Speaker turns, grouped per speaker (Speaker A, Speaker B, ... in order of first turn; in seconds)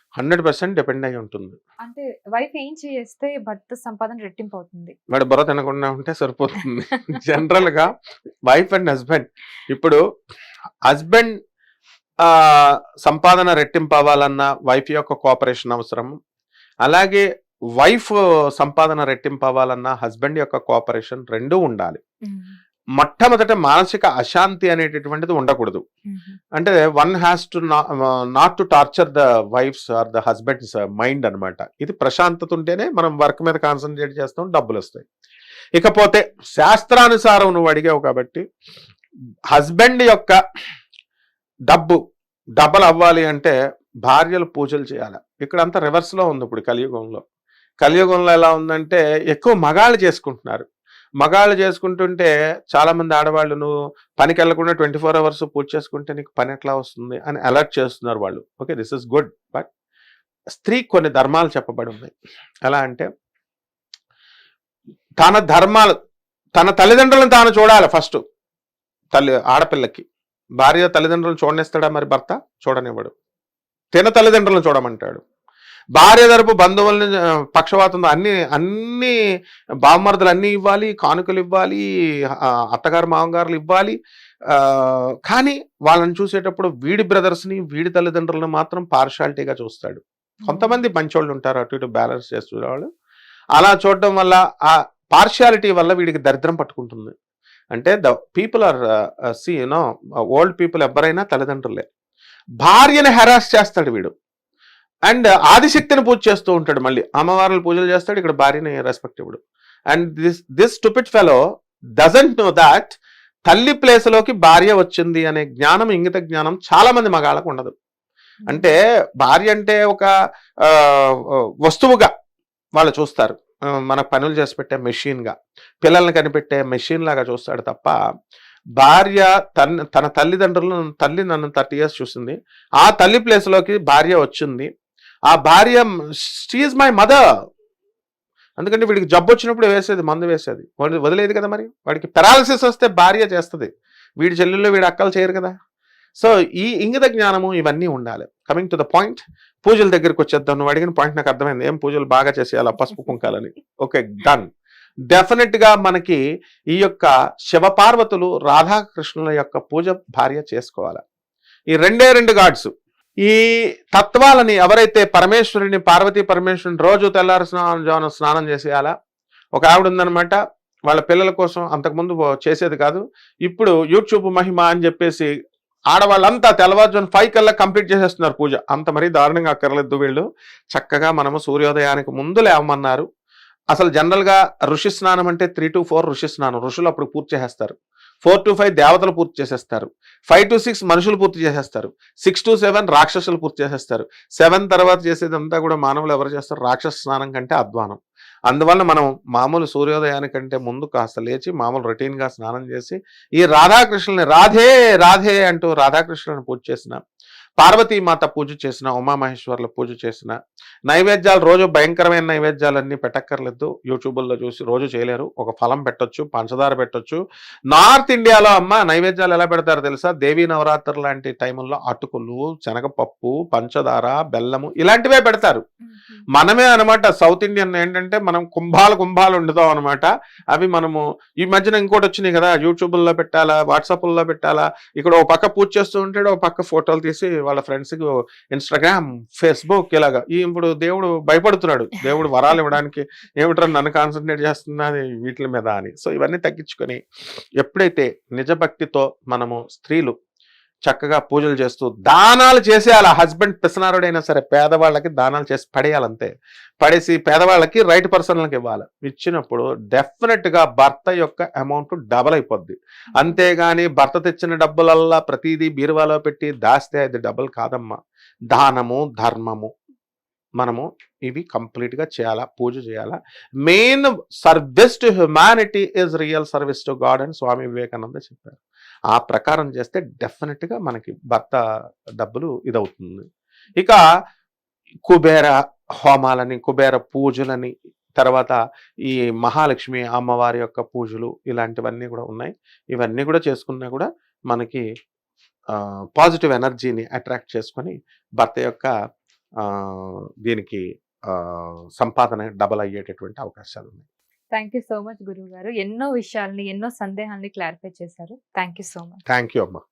Speaker A: 0.2-1.6, 5.1-7.9, 8.4-10.0, 10.9-11.3, 12.2-16.1, 16.8-17.2, 17.8-22.0, 23.0-25.8, 26.6-35.0, 35.8-38.4, 39.5-40.4, 41.7-42.0, 42.6-43.5, 44.0-47.2, 47.8-50.7, 51.2-59.7, 60.5-63.1, 65.2-65.9, 66.5-68.2, 69.1-70.0, 70.6-73.1, 73.9-75.2, 75.9-79.1, 79.8-81.8, 82.4-83.9, 84.5-92.9, 93.5-97.1, 97.7-98.8, 99.4-101.8, 102.6-104.1, 105.1-109.4, 109.9-111.4, 112.0-113.0, 113.5-117.7, 118.5-120.1, 120.6-122.1, 122.8-127.9, 128.8-134.7, 135.3-137.2, 138.6-145.5, 146.2-154.5, 155.1-156.2, 156.7-161.0, 161.7-162.7, 163.2-168.9, 169.5-170.4, 170.9-175.3, 175.9-183.1, 183.7-207.0, 207.6-210.3, 210.9-225.6, 226.3-247.0, 247.6-250.1, 250.8-267.9, 268.5-269.7, 270.6-278.6, 279.1-281.6, 282.2-283.2, 285.1-294.8, 295.7-298.9, 299.6-304.0, 309.3-309.8
Speaker B: 1.8-4.9, 22.3-22.6, 26.1-26.4, 90.4-90.8, 118.4-118.7, 225.8-226.2, 263.1-263.4, 304.5-309.2